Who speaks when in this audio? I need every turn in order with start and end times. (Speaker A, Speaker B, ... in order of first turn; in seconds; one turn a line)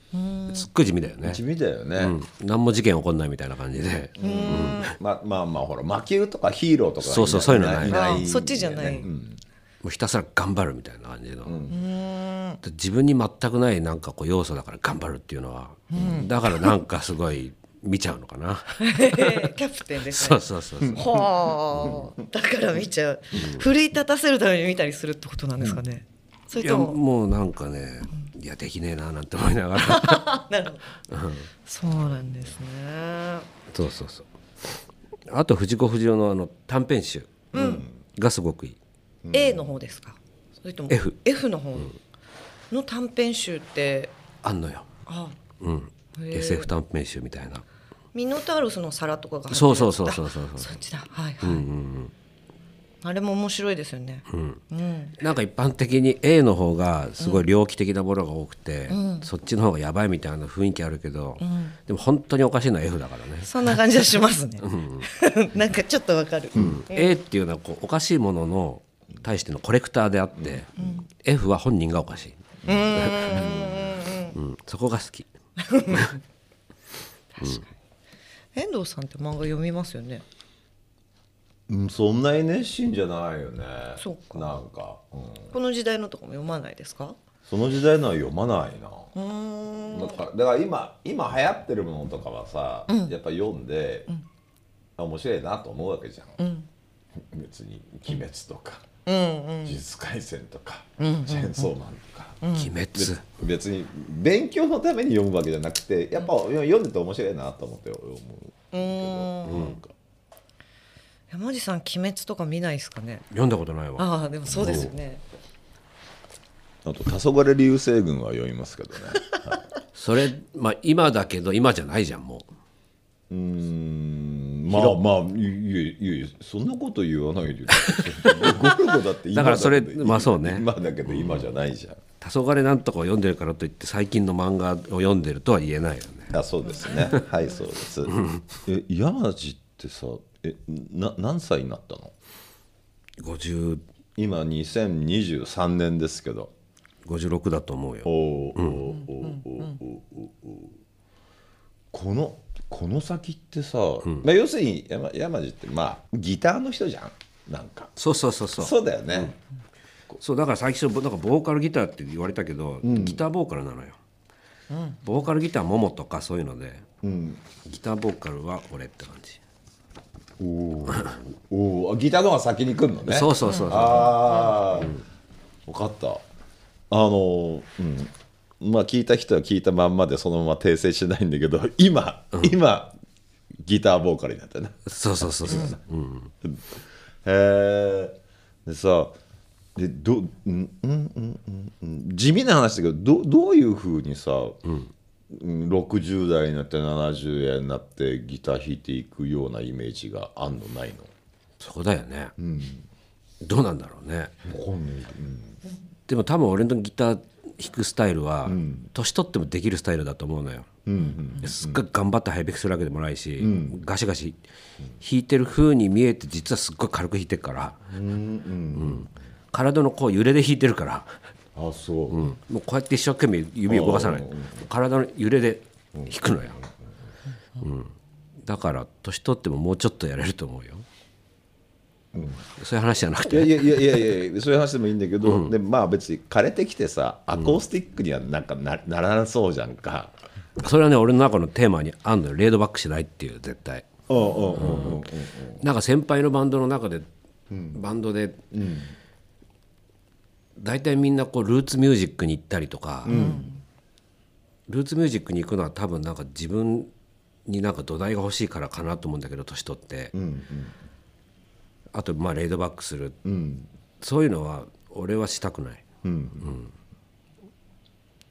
Speaker A: 0.1-0.7
Speaker B: 0.5-1.4
Speaker C: 1.2-2.1
Speaker B: 2.0-4.9
Speaker C: 4.2-9.4
Speaker A: 4.2-4.9
Speaker B: 7.0-8.2
Speaker A: 7.8-9.1
Speaker B: 9.8-11.6
Speaker C: 11.4-11.8
Speaker A: 11.7-12.6
Speaker B: 12.6-19.5
Speaker A: 15.9-16.7
Speaker A: 18.8-27.0
Speaker B: 20.1-21.2
Speaker C: 20.8-21.2
Speaker C: 21.8-22.1
Speaker B: 23.3-23.6
Speaker B: 26.6-30.4
Speaker A: 29.8-30.9
Speaker B: 31.1-31.5
Speaker A: 31.6-33.5
Speaker B: 33.7-34.2
Speaker B: 35.3-37.5
Speaker A: 37.5-37.9
Speaker C: 37.5-37.9
Speaker B: 38.1-38.8
Speaker C: 39.2-39.8
Speaker A: 39.3-42.0
Speaker B: 40.9-41.1
Speaker A: 42.7-44.1
Speaker B: 44.4-44.9
Speaker A: 45.1-45.4
Speaker B: 45.6-47.6
Speaker A: 46.1-46.7
Speaker A: 48.1-51.6
Speaker B: 49.5-50.8
Speaker B: 51.4-52.1
Speaker A: 53.0-55.1
Speaker B: 54.3-54.6
Speaker B: 55.2-63.8
Speaker A: 58.9-59.3
Speaker A: 61.4-61.8
Speaker A: 63.4-67.1
Speaker B: 64.6-65.0
Speaker B: 66.5-72.4
Speaker C: 66.5-66.8
Speaker A: 70.8-71.0
Speaker C: 72.6-73.8
Speaker A: 72.6-74.3
Speaker B: 72.9-73.7
Speaker B: 74.3-75.3
Speaker A: 75.6-76.2
Speaker B: 75.9-76.1
Speaker A: 77.4-77.7
Speaker A: 78.5-80.2
Speaker C: 81.7-85.5
Speaker A: 84.0-84.5
Speaker A: 85.5-87.2
Speaker C: 87.5-89.1
Speaker A: 89.1-90.2
Speaker C: 89.9-94.1
Speaker A: 92.9-93.1
Speaker C: 95.0-96.4
Speaker A: 96.4-96.7
Speaker C: 97.2-98.8
Speaker A: 99.0-99.8
Speaker C: 99.6-102.4
Speaker A: 101.0-101.7
Speaker A: 102.4-102.7
Speaker B: 102.5-103.2
Speaker C: 102.9-109.9
Speaker A: 108.7-109.8
Speaker B: 109.5-109.8
Speaker A: 111.3-113.2
Speaker B: 113.3-114.9
Speaker A: 114.0-115.2
Speaker C: 114.5-114.9
Speaker C: 116.8-119.6
Speaker B: 119.9-122.5
Speaker C: 123.3-132.0
Speaker B: 124.7-125.0
Speaker B: 127.8-128.7
Speaker B: 129.3-131.5
Speaker B: 132.2-136.3
Speaker C: 136.3-142.1
Speaker B: 138.1-138.4
Speaker B: 143.2-143.8
Speaker C: 144.2-146.5
Speaker B: 147.0-148.9
Speaker C: 148.0-150.8
Speaker C: 151.9-157.9
Speaker B: 158.0-159.3
Speaker C: 158.6-159.3
Speaker B: 160.2-164.0
Speaker C: 162.8-163.2
Speaker A: 164.7-165.0
Speaker B: 165.0-166.8
Speaker C: 167.0-167.4
Speaker B: 167.6-169.4
Speaker C: 170.4-174.9
Speaker B: 173.1-175.0
Speaker A: 173.4-174.6
Speaker C: 175.7-176.2
Speaker C: 176.9-182.9
Speaker C: 183.6-185.8
Speaker B: 184.9-186.3
Speaker C: 186.4-189.1
Speaker C: 189.7-194.6
Speaker B: 194.7-194.9
Speaker C: 195.3-201.1
Speaker B: 201.6-202.3
Speaker C: 202.4-202.8
Speaker B: 203.4-204.4
Speaker C: 204.4-205.6
Speaker B: 206.1-210.7
Speaker C: 208.4-208.9
Speaker C: 210.8-211.8
Speaker B: 211.4-214.4
Speaker C: 213.4-213.8
Speaker B: 215.0-217.8
Speaker C: 217.9-219.1
Speaker B: 218.7-221.1
Speaker C: 221.5-222.3
Speaker B: 222.1-226.7
Speaker C: 223.7-224.7
Speaker B: 227.6-230.8
Speaker C: 232.1-232.4
Speaker B: 232.6-234.2
Speaker C: 233.2-240.1
Speaker B: 235.2-235.5
Speaker B: 240.6-243.9
Speaker C: 244.1-245.6
Speaker B: 244.6-247.1
Speaker C: 247.5-247.8
Speaker B: 247.7-248.4
Speaker C: 248.5-248.9
Speaker B: 250.6-253.3
Speaker C: 253.0-253.5
Speaker A: 253.1-253.6
Speaker B: 254.7-256.9
Speaker B: 257.4-260.1
Speaker C: 260.1-260.8
Speaker B: 261.9-263.2
Speaker C: 263.2-263.7
Speaker B: 264.0-265.8
Speaker C: 266.0-266.6
Speaker B: 266.4-266.7